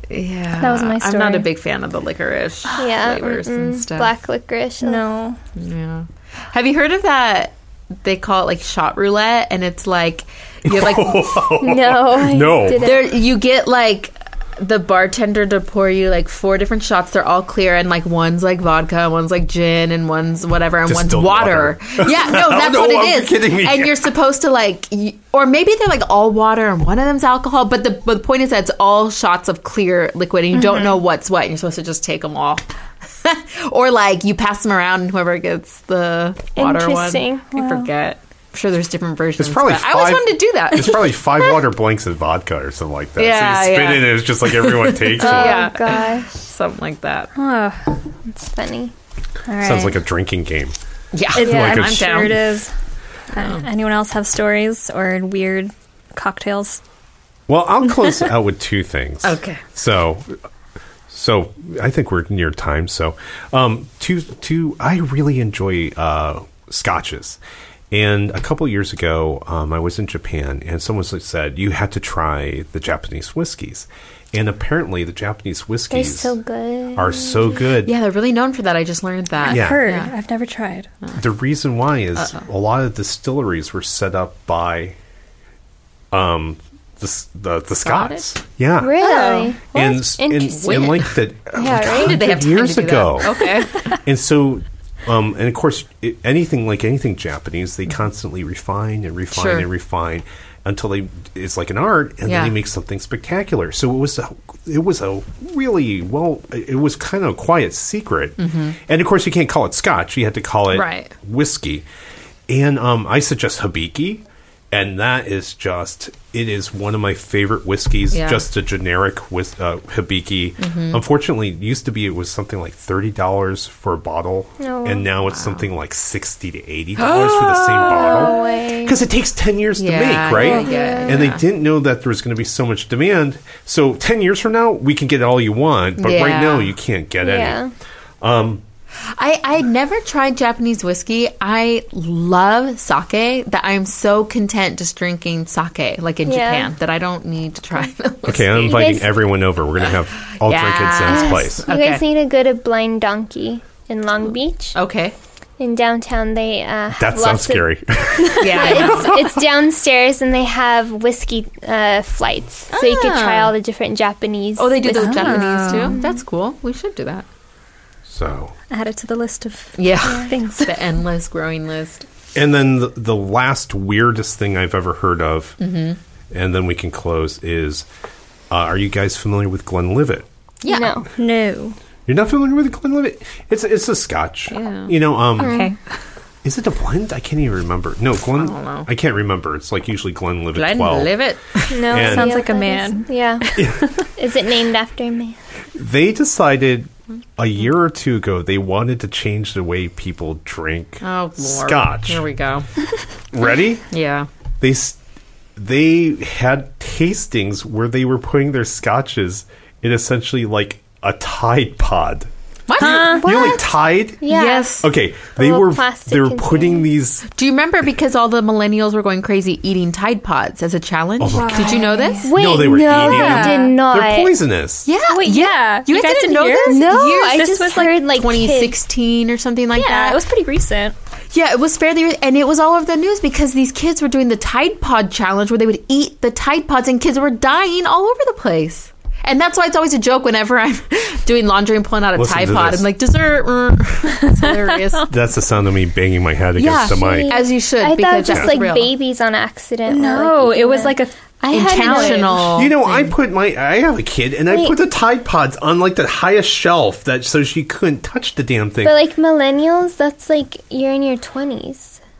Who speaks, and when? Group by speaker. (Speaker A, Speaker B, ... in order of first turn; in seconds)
Speaker A: 0.1-4.1, 5.5-11.5, 12.8-41.6, 43.2-47.3, 51.1-52.4, 53.3-53.6, 59.2-59.6, 77.8-80.1, 87.8-88.2, 89.0-89.6, 90.5-91.2, 91.7-94.0, 99.3-99.7, 102.2-102.5, 108.4-108.8, 110.7-111.1, 118.1-118.5, 120.6-121.0, 125.2-125.7, 127.0-128.9, 129.8-131.4, 136.0-136.7, 139.1-148.9, 150.3-152.0, 154.7-155.1, 158.4-159.2, 162.7-163.5, 164.6-167.2, 169.8-172.0, 175.6-176.0, 180.6-181.0, 184.5-184.9, 188.4-188.9, 190.5-191.9, 201.0-202.7, 203.9-204.3, 212.7-213.6, 214.2-214.9, 217.3-222.3, 224.8-230.2, 231.3-245.1, 246.6-248.9, 251.5-253.1
Speaker B: 0.5-1.5, 4.8-5.4, 37.5-37.9, 47.4-47.9, 49.5-50.0, 51.3-52.7, 53.3-56.8, 79.4-80.9, 164.9-166.0, 168.7-170.8, 181.2-181.8, 185.4-185.8, 191.9-194.0, 212.8-213.2, 221.3-222.3, 222.9-223.7, 225.1-228.1, 229.7-230.9, 249.9-251.1, 251.7-252.5
Speaker C: 2.7-5.0, 11.6-13.2, 36.5-37.5, 45.2-46.3, 48.3-48.9, 75.9-77.6, 88.8-90.9, 91.5-92.2, 124.6-125.1, 127.9-128.9, 130.3-131.3, 137.2-137.7, 146.2-146.7, 148.7-149.0, 151.1-154.8, 155.6-157.6, 158.5-166.1, 170.0-170.3, 180.7-181.1, 185.4-185.7, 191.7-193.4, 194.2-195.4, 213.2-213.6, 214.2-214.8, 215.3-216.9, 222.2-224.3, 226.7-228.7, 246.9-252.4, 254.5-254.8, 258.8-262.0
Speaker D: 10.6-13.0, 20.9-24.0, 39.4-45.6, 49.6-50.8, 51.3-52.0, 57.5-60.4, 61.1-67.4, 67.9-76.3, 77.0-77.9, 79.5-79.9, 81.1-85.0, 86.1-89.0, 89.7-111.8, 112.5-137.6, 138.2-138.6, 148.2-151.6, 157.0-159.4, 168.1-168.5, 172.3-175.6, 176.3-177.9, 178.5-180.3, 182.1-185.6, 186.4-191.2, 191.8-192.4, 193.5-193.8, 195.8-202.2, 203.3-203.8, 204.6-205.0, 205.6-214.2, 214.8-217.3, 221.2-224.9, 242.1-242.8, 245.1-247.3, 248.2-248.6, 252.5-259.0